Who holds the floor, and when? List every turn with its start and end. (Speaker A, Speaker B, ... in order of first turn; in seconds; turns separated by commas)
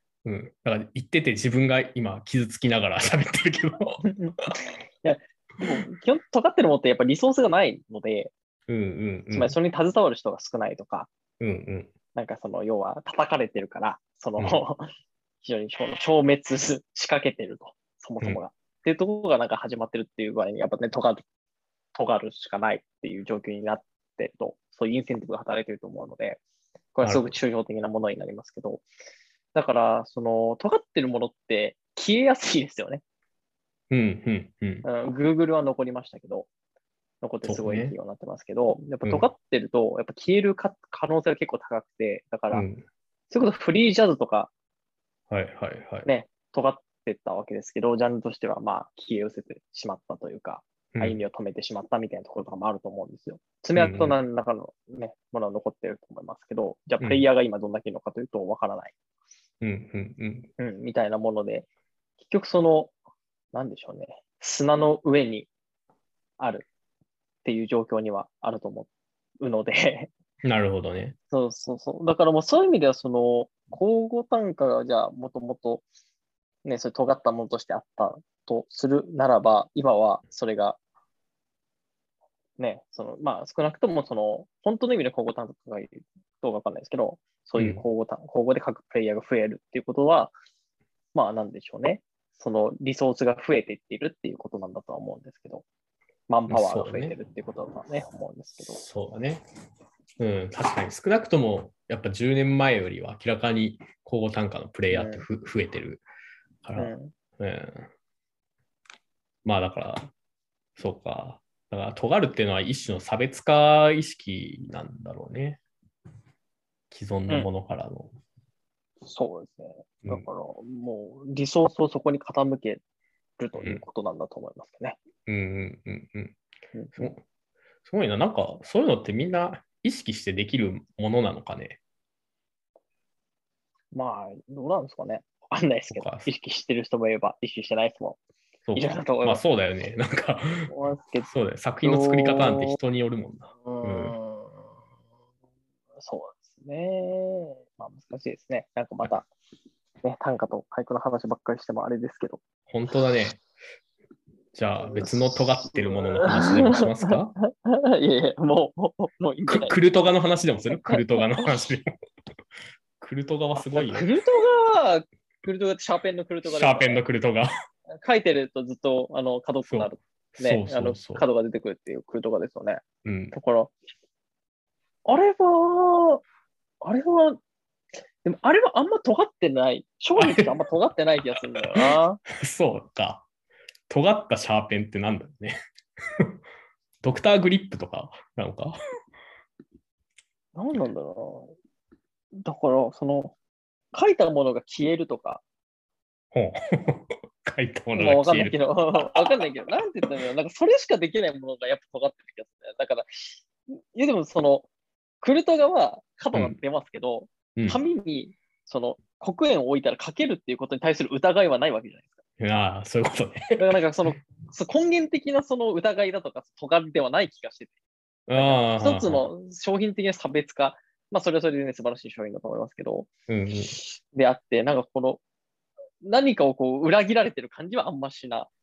Speaker A: 0.2-4.0, Speaker B: 4.0-8.3, Speaker A: 8.7-9.6, Speaker B: 9.3-11.1, Speaker A: 11.4-11.9, Speaker B: 12.2-21.2, Speaker B: 21.9-26.4, Speaker B: 26.9-28.9, Speaker A: 27.0-27.3, Speaker B: 29.5-33.0, Speaker A: 33.9-34.9, Speaker B: 34.8-36.5, Speaker B: 37.2-42.6, Speaker A: 37.4-38.0, Speaker A: 42.5-42.8, Speaker B: 43.3-44.5, Speaker A: 45.3-46.1, Speaker B: 46.0-58.9, Speaker A: 50.9-51.2, Speaker A: 53.8-54.2, Speaker A: 59.6-60.5, Speaker B: 60.6-61.7, Speaker B: 62.2-62.9, Speaker B: 63.5-65.5, Speaker B: 66.4-66.7, Speaker B: 67.4-68.9, Speaker B: 69.4-70.1, Speaker A: 70.4-71.2, Speaker B: 71.3-75.8, Speaker B: 76.7-80.8, Speaker B: 82.6-90.3, Speaker A: 87.6-87.8, Speaker B: 91.1-95.7, Speaker B: 96.3-98.8, Speaker A: 96.5-97.2, Speaker A: 98.7-99.4, Speaker A: 100.2-106.0, Speaker B: 104.9-105.3, Speaker A: 106.6-107.9, Speaker B: 106.8-107.1, Speaker A: 109.5-110.1, Speaker A: 110.8-115.6, Speaker A: 116.9-118.1, Speaker B: 119.0-122.8, Speaker B: 123.4-125.0, Speaker A: 123.6-123.8, Speaker A: 125.3-126.4, Speaker B: 126.7-127.1, Speaker A: 127.8-131.8, Speaker B: 133.9-138.2, Speaker A: 135.9-136.3, Speaker A: 138.7-140.7, Speaker B: 138.8-139.4, Speaker B: 140.7-141.3, Speaker A: 141.3-144.2, Speaker B: 141.8-142.8, Speaker B: 143.6-144.7, Speaker B: 146.0-149.3, Speaker B: 150.0-152.4, Speaker A: 152.7-153.4, Speaker A: 154.5-157.4, Speaker B: 154.8-160.1, Speaker A: 159.5-161.9, Speaker B: 160.7-161.7, Speaker A: 163.0-164.1, Speaker B: 163.6-167.0, Speaker A: 166.4-167.5, Speaker B: 167.9-173.7, Speaker A: 169.7-171.2, Speaker A: 173.1-173.3, Speaker B: 175.1-176.2, Speaker B: 176.8-177.4, Speaker B: 178.2-182.2, Speaker A: 180.2-180.5, Speaker A: 181.6-183.2, Speaker A: 183.9-185.6, Speaker A: 187.0-188.8, Speaker B: 190.6-191.6, Speaker B: 192.4-193.4, Speaker B: 193.9-195.4, Speaker A: 196.3-198.6, Speaker B: 197.9-204.7, Speaker B: 205.2-212.2, Speaker A: 212.4-213.6, Speaker B: 213.6-217.7, Speaker A: 218.3-219.3, Speaker B: 218.3-223.1, Speaker A: 223.3-223.8, Speaker B: 223.7-225.2, Speaker B: 226.0-228.5